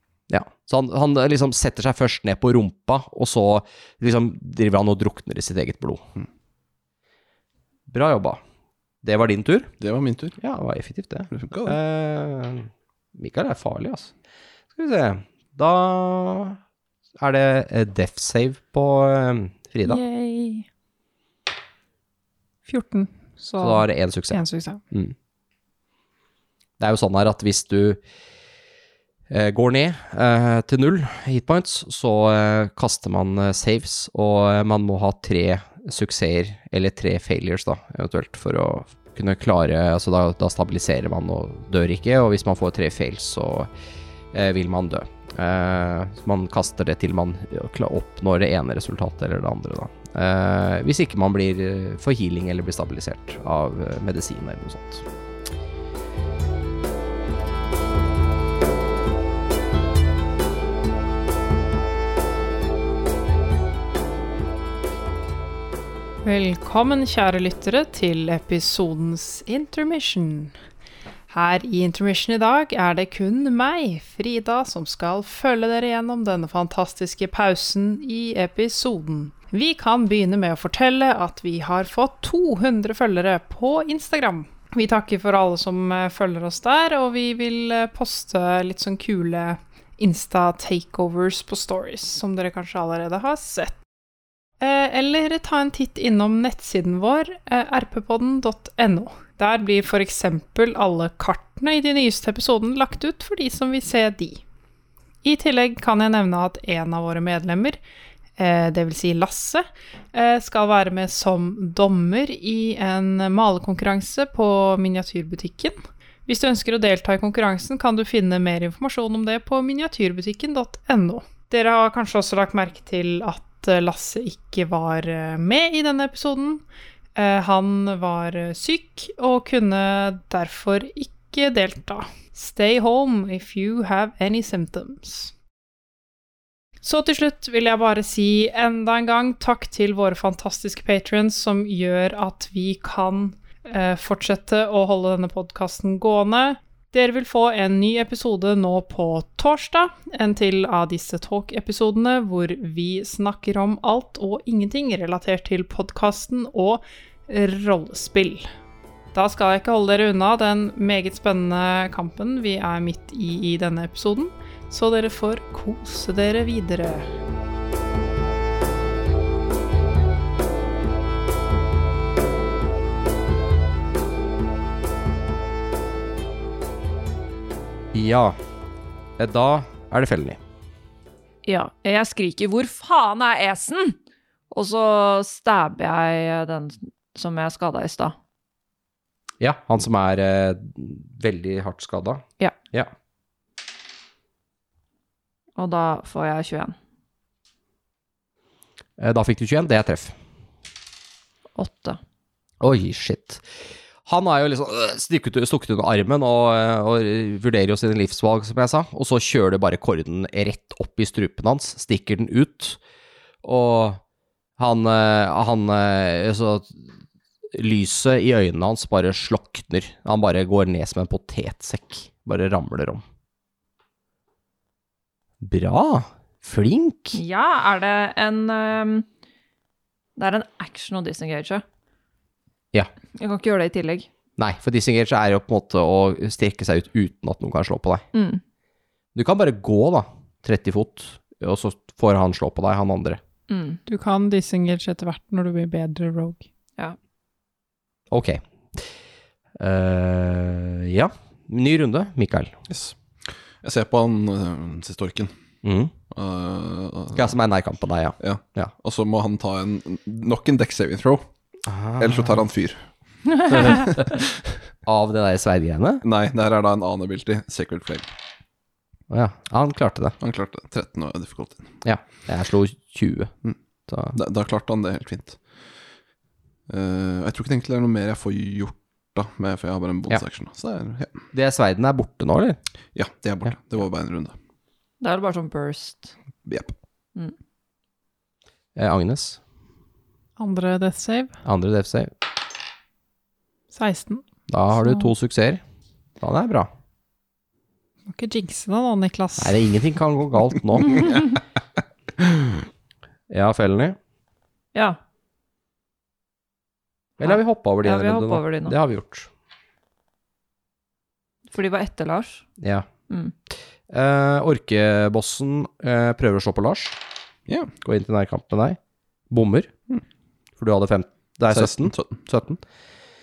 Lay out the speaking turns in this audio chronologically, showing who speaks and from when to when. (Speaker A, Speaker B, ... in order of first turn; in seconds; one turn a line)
Speaker A: 0.3-6.0
Speaker A: 7.9-8.4
Speaker A: 9.0-9.7
Speaker B: 9.8-10.3
Speaker A: 10.4-14.1
Speaker B: 11.3-11.8
Speaker A: 14.7-16.6
Speaker A: 17.2-20.0
Speaker C: 19.8-20.6
Speaker C: 22.6-24.8
Speaker A: 23.6-25.1
Speaker A: 26.8-28.0
Speaker A: 29.3-43.7
Speaker A: 44.3-55.0
Speaker C: 66.2-70.5
Speaker C: 71.3-93.8
Speaker C: 94.6-104.4
Speaker C: 105.2-107.8
Speaker C: 108.4-126.6
Speaker C: 127.2-135.3
Speaker C: 136.8-158.5
Speaker C: 159.1-167.1
Speaker A: 177.9-178.3
Speaker A: 179.2-180.4
Speaker D: 181.4-184.0
Speaker D: 184.5-188.2
Speaker A: 189.4-192.9
Speaker D: 195.6-196.8
Speaker A: 199.0-200.1
Speaker D: 201.5-202.0
Speaker A: 202.6-203.4
Speaker A: 204.0-212.8
Speaker A: 213.4-214.0
Speaker A: 214.6-216.8
Speaker A: 217.5-223.0
Speaker A: 225.4-227.2
Speaker D: 227.1-229.1
Speaker D: 230.2-231.6
Speaker D: 233.2-234.1
Speaker A: 234.4-238.0
Speaker D: 238.1-238.4
Speaker A: 239.1-243.2
Speaker D: 243.5-243.8
Speaker C: 243.9-246.4
Speaker A: 248.1-248.4
Speaker A: 249.6-252.5
Speaker B: 252.7-255.3
Speaker A: 255.6-255.9
Speaker B: 256.1-257.3
Speaker A: 257.1-258.7
Speaker B: 258.2-261.2
Speaker A: 261.6-262.4
Speaker B: 262.0-262.9
Speaker B: 263.5-264.2
Speaker A: 264.9-266.0
Speaker B: 266.0-268.1
Speaker A: 269.1-270.1
Speaker B: 270.2-271.7
Speaker A: 271.8-273.3
Speaker A: 273.9-274.2
Speaker B: 274.1-275.4
Speaker B: 276.7-281.1
Speaker A: 281.3-282.6
Speaker B: 282.9-284.3
Speaker D: 285.0-286.1
Speaker B: 286.4-286.7
Speaker A: 288.8-289.4
Speaker C: 290.4-291.3
Speaker A: 291.4-292.1
Speaker C: 293.7-294.2
Speaker A: 294.5-295.6
Speaker A: 296.2-296.7
Speaker C: 298.1-299.6
Speaker A: 299.4-301.2
Speaker A: 303.3-304.0
Speaker D: 304.7-305.0
Speaker A: 307.2-309.3
Speaker D: 307.2-308.8
Speaker D: 311.5-312.4
Speaker A: 312.6-312.9
Speaker A: 313.9-316.9
Speaker B: 317.5-317.7
Speaker A: 317.8-318.8
Speaker A: 319.3-319.7
Speaker A: 320.6-322.6
Speaker B: 321.5-322.2